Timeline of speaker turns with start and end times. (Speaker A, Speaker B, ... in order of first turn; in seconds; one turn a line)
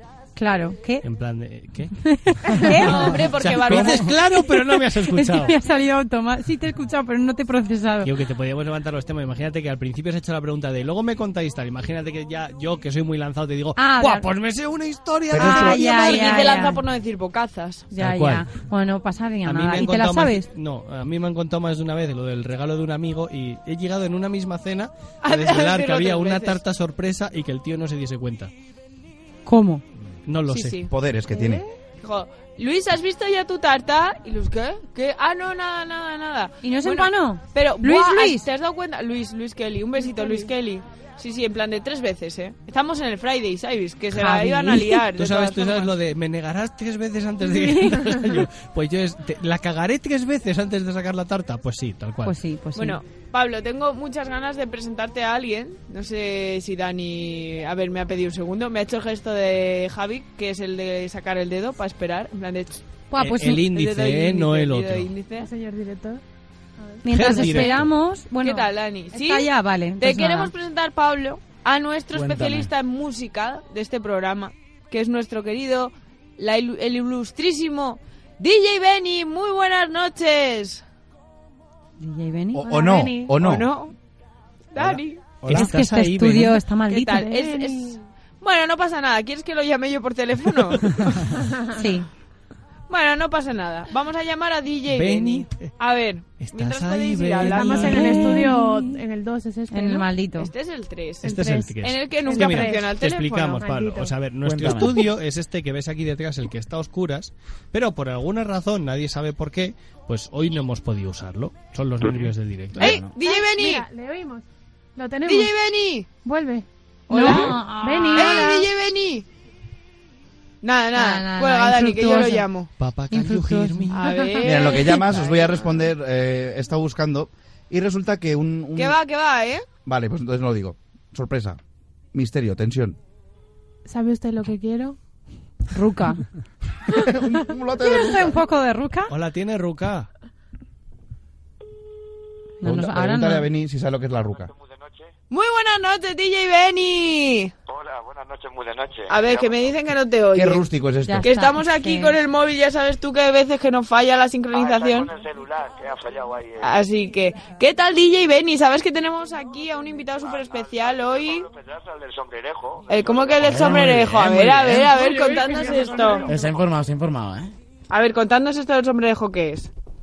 Speaker A: 0.3-1.0
Speaker B: 1.0-5.6
Speaker A: 2.0-8.1
Speaker C: 2.7-4.2
Speaker B: 8.0-16.2
Speaker A: 13.8-14.3
Speaker A: 15.3-16.8
Speaker C: 15.4-17.9
Speaker A: 17.9-20.5
Speaker B: 17.9-18.5
Speaker B: 19.4-28.5
Speaker C: 25.2-26.6
Speaker A: 29.4-29.8
Speaker B: 30.2-30.8
Speaker C: 30.5-31.5
Speaker D: 30.9-31.6
Speaker C: 32.0-45.9
Speaker A: 36.6-38.5
Speaker E: 40.0-40.5
Speaker A: 44.1-45.1
Speaker B: 45.1-52.4
Speaker A: 47.5-48.4
Speaker A: 52.2-53.0
Speaker C: 52.7-62.8
Speaker A: 63.1-63.7
Speaker B: 63.1-65.1
Speaker C: 63.7-65.5
Speaker E: 65.3-66.2
Speaker E: 66.8-67.5
Speaker A: 67.0-70.5
Speaker B: 67.1-67.9
Speaker C: 68.4-80.8
Speaker F: 72.1-72.7
Speaker A: 82.0-82.8
Speaker D: 82.5-83.7
Speaker E: 82.7-83.4
Speaker C: 83.3-83.9
Speaker C: 84.7-85.2
Speaker B: 84.8-86.6
Speaker A: 85.5-87.3
Speaker C: 86.9-91.0
Speaker E: 87.3-88.0
Speaker A: 91.7-92.1
Speaker C: 92.9-98.1
Speaker B: 94.9-95.8
Speaker B: 96.4-98.2
Speaker E: 97.3-100.1
Speaker A: 97.8-99.0
Speaker A: 99.7-100.5
Speaker C: 100.4-103.6
Speaker B: 101.2-113.0
Speaker E: 101.2-103.0
Speaker E: 103.6-104.2
Speaker F: 104.4-105.1
Speaker C: 112.8-113.8
Speaker F: 112.8-113.1
Speaker E: 112.9-115.5
Speaker C: 115.2-116.1
Speaker E: 116.2-118.7
Speaker C: 117.1-119.2
Speaker A: 117.1-118.5
Speaker C: 120.6-122.7
Speaker A: 120.9-122.5
Speaker B: 122.8-124.0
Speaker A: 123.1-124.0
Speaker C: 123.9-125.4
Speaker E: 124.0-124.4
Speaker D: 124.4-128.9
Speaker C: 128.7-129.6
Speaker D: 129.8-131.6
Speaker D: 132.1-133.0
Speaker E: 133.8-135.0
Speaker A: 135.7-136.2
Speaker D: 136.9-138.4
Speaker A: 137.8-139.1
Speaker B: 139.1-140.1
Speaker A: 142.6-143.5
Speaker D: 142.6-144.5
Speaker G: 144.2-145.1
Speaker C: 145.3-147.5
Speaker G: 147.7-149.8
Speaker C: 149.1-150.6
Speaker D: 150.3-151.3
Speaker A: 151.1-152.2
Speaker C: 151.2-155.1
Speaker G: 154.5-156.7
Speaker C: 156.6-161.5
Speaker G: 160.1-163.9
Speaker C: 162.9-166.3
Speaker F: 163.4-164.9
Speaker E: 164.9-166.4
Speaker G: 165.7-166.2
Speaker F: 166.2-167.5
Speaker C: 167.9-169.7